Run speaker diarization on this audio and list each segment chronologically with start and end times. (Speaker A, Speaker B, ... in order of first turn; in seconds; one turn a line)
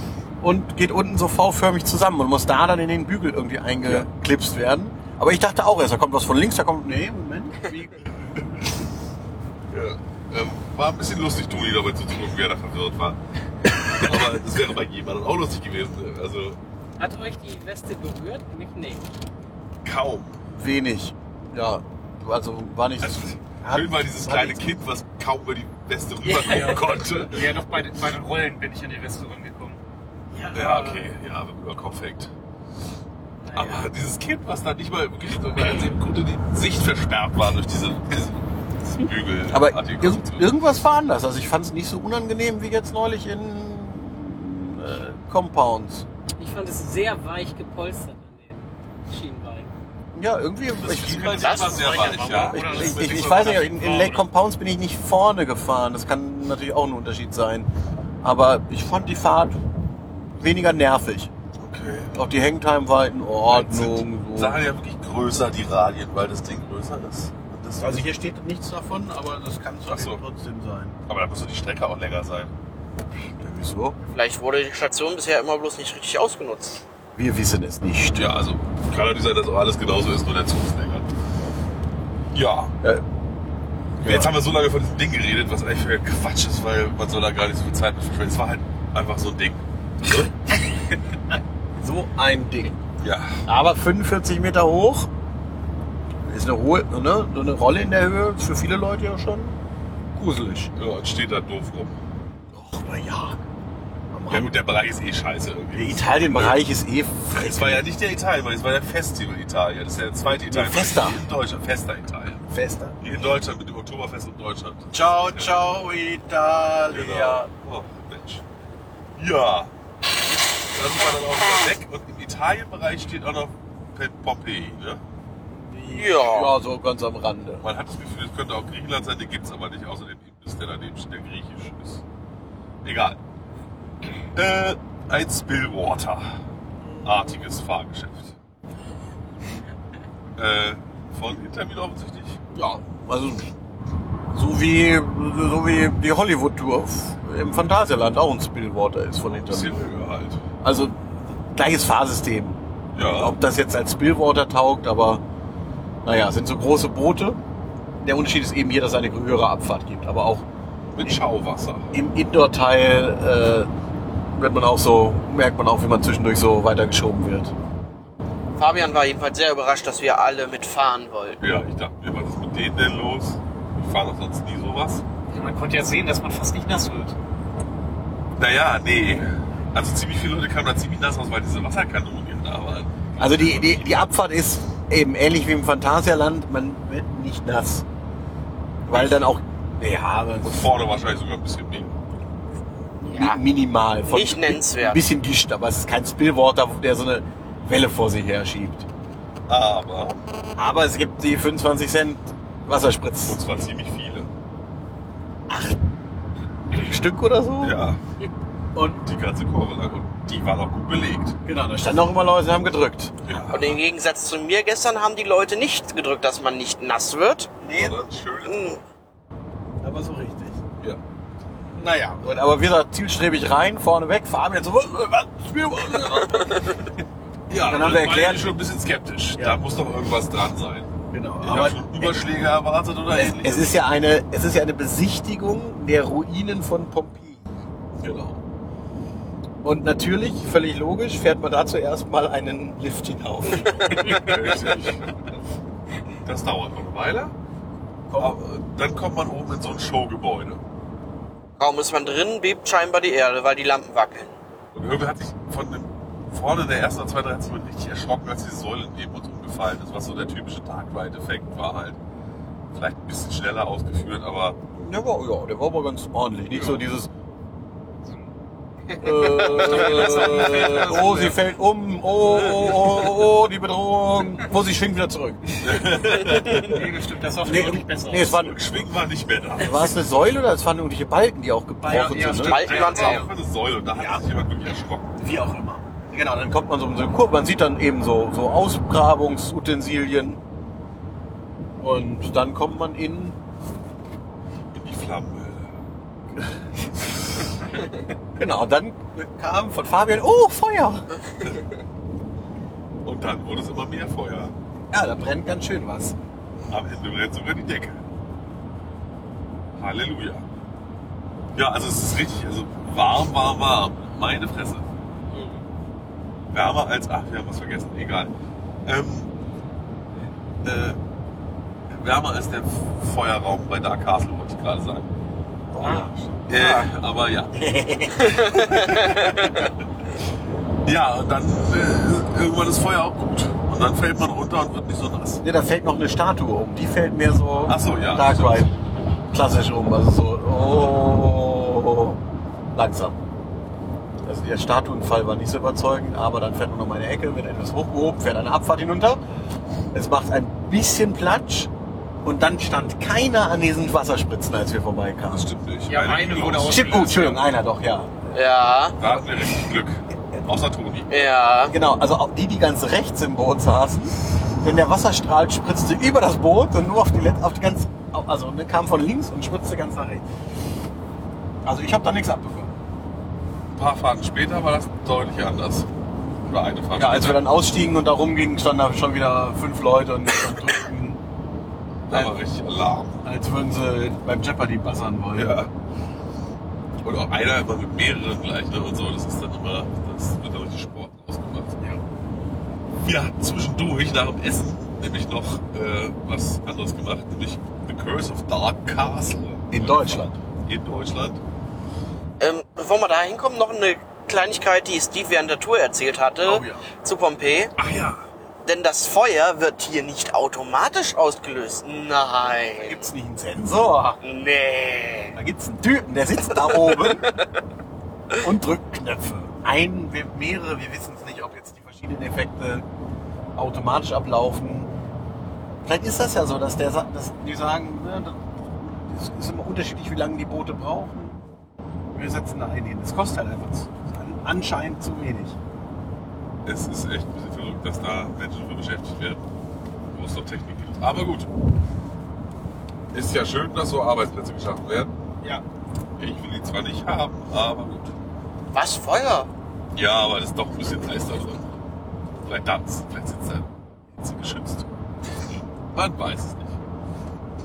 Speaker A: 0.4-8.6
Speaker B: 3.8-4.1
Speaker B: 9.7-16.6
Speaker C: 17.0-19.1
Speaker B: 19.8-20.4
Speaker A: 20.5-24.7
Speaker B: 23.0-27.5
Speaker C: 26.2-27.1
Speaker D: 26.5-29.8
Speaker C: 30.3-31.1
Speaker B: 30.5-32.3
Speaker C: 33.4-33.9
Speaker B: 33.5-40.6
Speaker A: 39.5-46.0
Speaker C: 46.4-49.7
Speaker A: 50.1-57.7
Speaker B: 50.7-53.8
Speaker E: 51.4-51.9
Speaker D: 51.5-54.2
Speaker A: 58.2-59.6
Speaker A: 60.4-61.3
Speaker B: 61.6-62.2
Speaker A: 62.1-64.6
Speaker B: 63.5-68.1
Speaker A: 67.8-71.0
Speaker B: 69.9-70.2
Speaker B: 71.1-72.5
Speaker A: 73.3-74.0
Speaker E: 74.1-76.8
Speaker A: 77.2-78.2
Speaker B: 78.1-81.1
Speaker B: 82.3-82.7
Speaker A: 84.0-84.3
Speaker B: 84.0-90.3
Speaker A: 91.8-92.8
Speaker B: 93.0-93.4
Speaker A: 93.5-95.1
Speaker A: 96.2-99.6
Speaker A: 100.1-100.7
Speaker B: 100.7-102.0
Speaker A: 102.5-103.4
Speaker A: 104.1-104.5
Speaker B: 104.3-106.6
Speaker A: 105.7-107.8
Speaker B: 107.3-112.4
Speaker A: 110.2-111.2
Speaker A: 112.5-113.0
Speaker B: 113.0-115.7
Speaker A: 114.9-117.5
Speaker B: 116.9-118.4
Speaker B: 119.2-119.7
Speaker B: 120.7-125.0
Speaker A: 125.6-127.6
Speaker E: 125.9-126.5
Speaker B: 127.6-132.0
Speaker B: 132.8-133.2
Speaker B: 134.3-136.4
Speaker B: 137.0-138.3
Speaker B: 140.3-142.4
Speaker A: 142.5-143.5
Speaker A: 144.3-149.8
Speaker B: 149.2-150.4
Speaker A: 150.6-151.0
Speaker A: 151.5-152.6
Speaker B: 152.9-153.3
Speaker A: 153.1-155.2
Speaker A: 156.0-157.4
Speaker A: 158.0-160.4
Speaker B: 160.9-161.9
Speaker A: 161.9-163.7
Speaker A: 164.3-167.5
Speaker E: 168.6-171.4
Speaker B: 171.4-175.0
Speaker D: 175.3-177.2
Speaker B: 178.4-184.1
Speaker A: 183.2-187.8
Speaker A: 188.8-190.7
Speaker B: 188.9-189.3
Speaker B: 190.4-192.0
Speaker A: 193.0-198.8
Speaker E: 193.1-193.4
Speaker E: 194.1-195.0
Speaker B: 199.5-200.2
Speaker A: 200.6-203.4
Speaker B: 203.2-204.3
Speaker A: 205.5-205.8
Speaker A: 206.7-207.8
Speaker B: 207.6-208.0
Speaker A: 208.7-209.0
Speaker B: 209.0-211.3
Speaker A: 211.4-213.1
Speaker B: 213.2-213.8
Speaker E: 213.5-217.5
Speaker A: 217.6-218.0
Speaker B: 217.7-218.8
Speaker E: 218.4-218.8
Speaker A: 219.8-220.6
Speaker A: 221.8-226.9
Speaker E: 226.3-226.7
Speaker B: 227.5-233.8
Speaker A: 227.6-228.5
Speaker A: 229.3-229.6
Speaker A: 231.1-232.2
Speaker A: 233.1-237.7
Speaker B: 238.0-238.4
Speaker A: 239.6-244.7
Speaker B: 243.6-245.1
Speaker B: 246.2-247.3
Speaker A: 248.1-248.4
Speaker B: 248.2-250.6
Speaker E: 251.6-254.3
Speaker B: 254.7-262.0
Speaker B: 262.7-264.6
Speaker A: 264.7-267.1
Speaker B: 266.5-266.8
Speaker A: 269.0-276.2
Speaker D: 269.5-271.4
Speaker B: 269.8-271.0
Speaker B: 275.6-276.9
Speaker D: 276.4-278.4
Speaker A: 277.4-278.6
Speaker B: 278.2-279.9
Speaker A: 279.6-282.7
Speaker D: 281.8-283.3
Speaker E: 282.3-283.3
Speaker B: 282.5-285.2
Speaker A: 283.9-284.2
Speaker A: 285.2-290.4
Speaker A: 291.8-293.4
Speaker B: 294.7-295.7
Speaker A: 298.4-301.2
Speaker B: 303.0-304.5
Speaker A: 304.9-306.1
Speaker B: 306.7-308.0
Speaker B: 309.8-310.4
Speaker B: 311.5-314.9
Speaker B: 316.5-318.3
Speaker B: 318.9-319.3
Speaker B: 320.6-321.0
Speaker B: 321.9-325.1
Speaker A: 325.7-326.8
Speaker B: 325.8-327.7
Speaker A: 327.5-329.0
Speaker E: 328.2-329.5
Speaker B: 328.2-329.7
Speaker B: 330.8-335.4
Speaker A: 335.4-338.7
Speaker B: 337.6-338.7
Speaker A: 339.3-342.2
Speaker A: 342.7-343.2
Speaker A: 344.2-349.2
Speaker A: 349.9-351.7
Speaker A: 352.2-355.5
Speaker B: 355.3-357.4
Speaker D: 355.9-357.1
Speaker A: 356.6-358.2
Speaker E: 358.3-359.0
Speaker B: 359.0-361.1
Speaker E: 361.1-361.7
Speaker A: 361.7-370.3
Speaker A: 371.6-372.7
Speaker B: 373.7-375.9
Speaker B: 376.4-377.4
Speaker A: 376.9-381.2
Speaker B: 382.1-383.2
Speaker A: 382.1-382.4
Speaker A: 383.2-385.6
Speaker B: 385.3-385.7
Speaker B: 387.0-391.8
Speaker B: 393.0-401.4
Speaker A: 399.7-400.4
Speaker E: 402.4-407.7
Speaker A: 406.4-406.9
Speaker B: 407.8-408.2
Speaker E: 408.6-413.1
Speaker A: 412.8-414.2
Speaker E: 414.2-415.3
Speaker A: 415.3-417.3
Speaker E: 416.7-417.5
Speaker A: 418.4-422.8
Speaker A: 423.6-424.9
Speaker A: 425.8-431.4
Speaker A: 432.1-435.6
Speaker B: 436.6-439.4
Speaker B: 440.1-441.5
Speaker B: 443.1-445.1
Speaker B: 446.2-448.1
Speaker E: 448.7-449.5
Speaker B: 449.9-451.7
Speaker B: 452.4-454.9
Speaker B: 455.9-456.8